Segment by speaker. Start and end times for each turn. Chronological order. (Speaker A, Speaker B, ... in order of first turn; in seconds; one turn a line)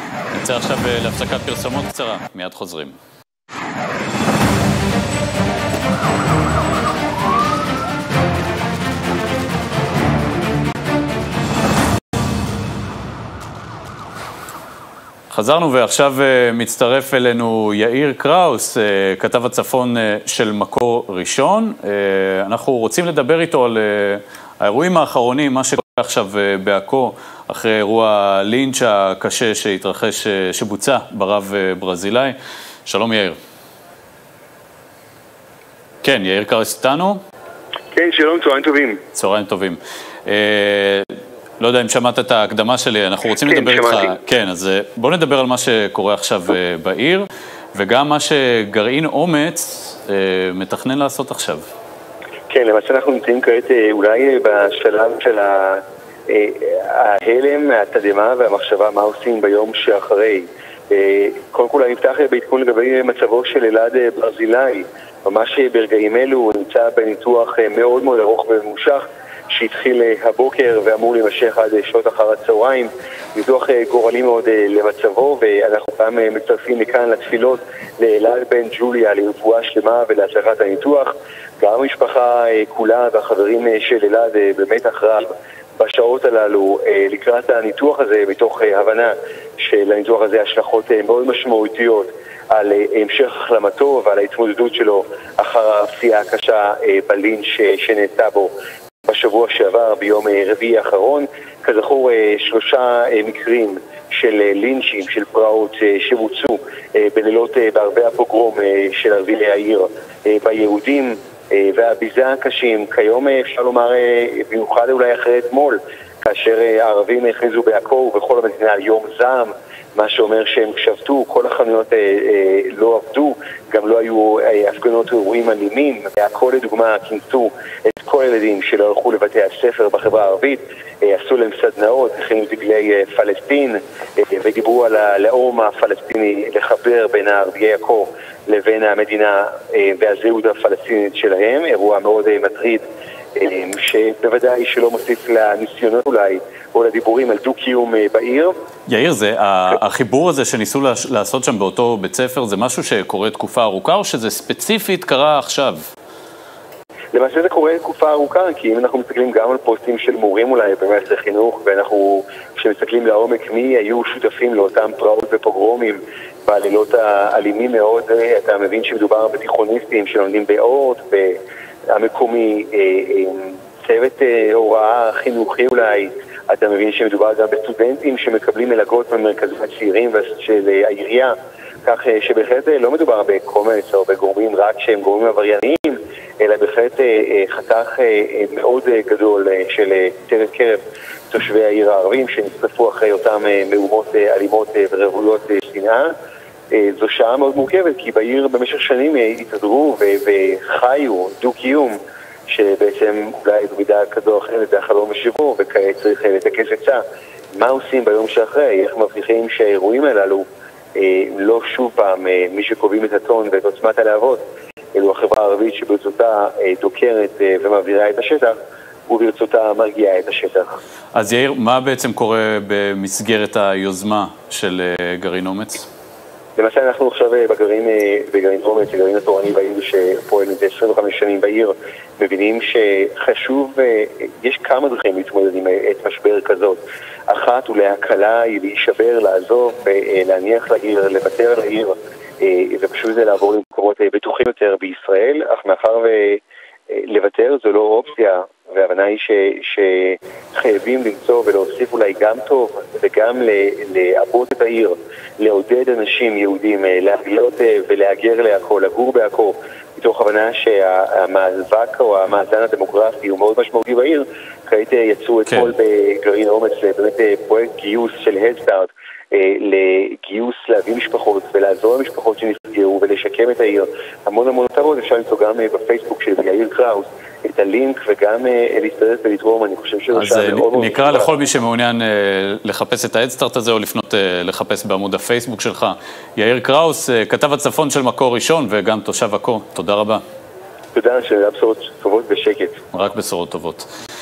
Speaker A: 0.3-2.9
Speaker A: 15.3-32.4
Speaker A: 32.9-33.4
Speaker A: 36.0-37.2
Speaker B: 37.9-39.0
Speaker A: 39.1-51.6
Speaker B: 43.4-44.1
Speaker B: 52.5-55.8
Speaker B: 56.3-98.5
Speaker B: 99.1-142.8
Speaker B: 143.4-148.5
Speaker A: 148.9-155.8
Speaker B: 157.1-171.3
Speaker B: 171.9-181.3
Speaker B: 181.8-190.8
Speaker B: 191.3-196.1
Speaker B: 196.7-202.0
Speaker B: 202.5-207.0
Speaker B: 207.6-210.4
Speaker B: 211.0-214.4
Speaker B: 214.9-218.5
Speaker B: 219.1-220.8
Speaker A: 221.1-225.8
Speaker B: 226.6-236.8
Speaker B: 237.3-246.4
Speaker B: 246.9-281.3
Speaker A: 265.5-265.7
Speaker A: 280.1-290.2
Speaker B: 290.9-292.8
Speaker A: 292.9-293.9